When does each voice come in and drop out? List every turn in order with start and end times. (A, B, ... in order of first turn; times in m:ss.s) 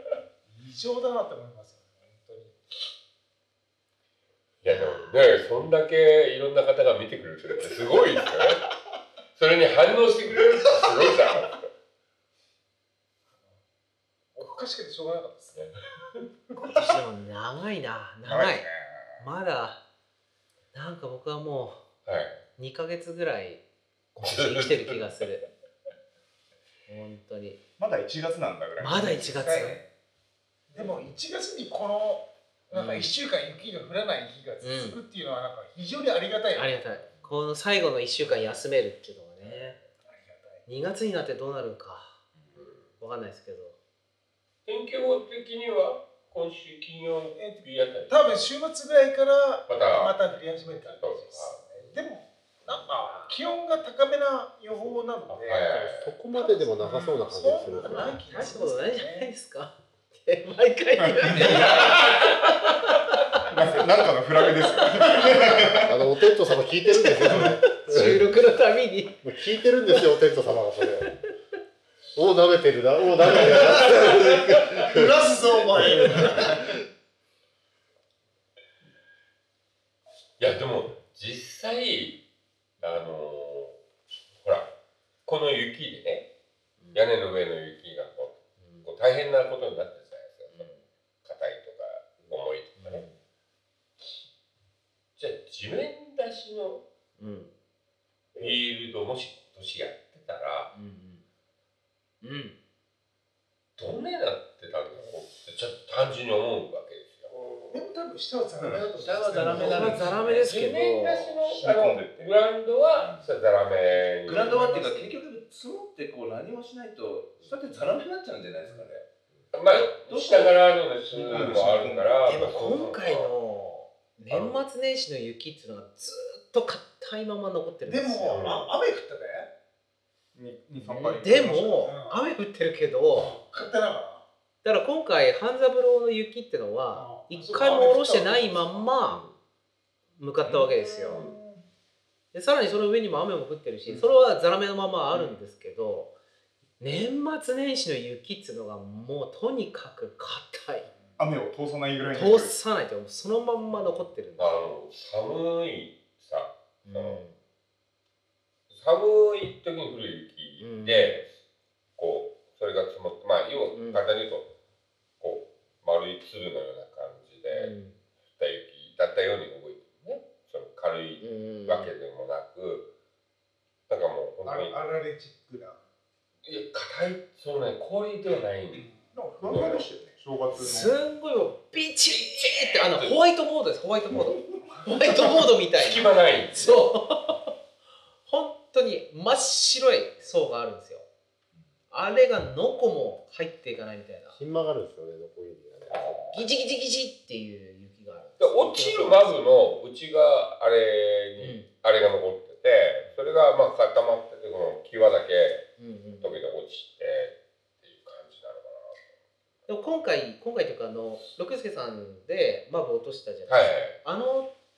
0:00.5-0:02.6 A
0:04.6-0:08.6 B
0:04.6-0:05.2 C
0:09.4-0:11.6 B
0:14.4-0:15.6 A
0:16.6-0:18.7 C
0:18.3-0:19.3 D
0:19.2-0:19.8 C
0:20.7-0:21.8 C
0:22.1-0:22.4 B
0:22.6-0:23.6 C
0:24.2-0:25.5 C
0:24.2-0:25.1 B
0:26.9-0:27.6 C
0:27.8-0:29.5 D
0:28.8-0:29.8 C
0:29.3-0:29.8 A
0:30.7-0:36.7 A
0:32.7-0:33.1 C
0:34.6-0:35.0 C
0:36.5-0:39.8 C
0:39.4-0:39.8 B
0:40.1-0:40.6 A
0:40.7-0:42.2 C
0:42.5-0:42.9 B
0:43.0-0:43.8 C
0:44.7-0:48.4 B
0:47.4-0:55.7 A
0:49.7-0:52.0 B
0:52.7-0:53.0 B
0:53.0-0:53.3 C
0:55.4-0:56.1 B
0:55.5-0:58.3 E
0:56.3-0:59.3 A
0:57.7-1:02.6 C
1:01.0-1:01.9 D
1:01.2-1:02.1 F
1:03.5-1:06.0 D
1:05.7-1:08.3 E
1:06.9-1:09.3 C
1:09.2-1:11.1 E
1:12.2-1:15.1 E
1:13.4-1:16.6 A
1:15.8-1:16.8 E
1:20.4-1:22.2 B
1:22.8-1:23.8 B
1:24.4-1:24.7 B
1:25.3-1:26.3 B
1:26.9-1:30.7 B
1:28.6-1:28.9 C
1:30.5-1:30.8 C
1:31.2-1:33.0 B
1:32.8-1:33.2 C
1:35.2-1:36.8 B
1:37.2-1:37.5 C
1:38.4-1:40.7 B
1:40.7-1:41.2 C
1:42.2-1:42.6 C
1:43.8-1:47.3 B
1:47.7-1:50.1 A
1:48.6-1:50.4 F
1:49.5-1:49.9 D
1:49.5-1:51.4 C
1:49.6-1:54.6 B
1:51.5-1:52.4 D
1:53.0-1:53.3 D
1:54.3-1:59.0 F
1:54.3-1:55.2 C
1:59.5-2:03.3 B
1:59.7-2:00.6 F
2:01.1-2:02.2 D
2:02.3-2:08.5 C
2:04.3-2:04.6 B
2:07.8-2:09.5 A
2:08.3-2:08.7 B
2:10.4-2:11.9 D
2:10.8-2:13.3 C
2:11.8-2:12.2 A
2:13.2-2:14.3 A
2:14.6-2:19.2 C
2:16.9-2:18.9 A
2:19.1-2:19.3 B
2:20.2-2:21.2 C
2:20.4-2:21.2 D
2:21.1-2:21.4 B
2:22.3-2:26.1 C
2:26.8-2:30.9 C
2:31.2-2:32.6 D
2:32.1-2:34.6 C
2:34.4-2:37.2 B
2:36.8-2:37.4 C
2:38.7-2:41.3 B
2:40.6-2:41.2 C
2:42.0-2:44.5 B
2:43.7-2:44.0 C
2:45.2-2:47.7 B
2:47.5-2:48.0 C
2:48.4-2:52.9 B
2:51.2-2:51.9 C
2:53.9-2:54.8 B
2:54.4-2:55.8 A
2:56.5-2:58.9 B
2:58.8-2:59.6 A
2:59.1-3:01.0 D
2:59.4-3:00.0 B
3:00.6-3:07.4 C
3:02.1-3:03.2 B
3:04.2-3:04.8 D
3:05.7-3:06.8 B
3:08.3-3:11.1 C
3:11.9-3:14.4 C
3:14.4-3:16.1 E
3:15.9-3:16.5 D
3:16.3-3:19.4 C
3:18.4-3:25.7 B
3:21.4-3:21.7 C
3:25.8-3:26.4 C
3:26.2-3:29.0 B
3:29.7-3:34.5 C
3:33.5-3:34.0 B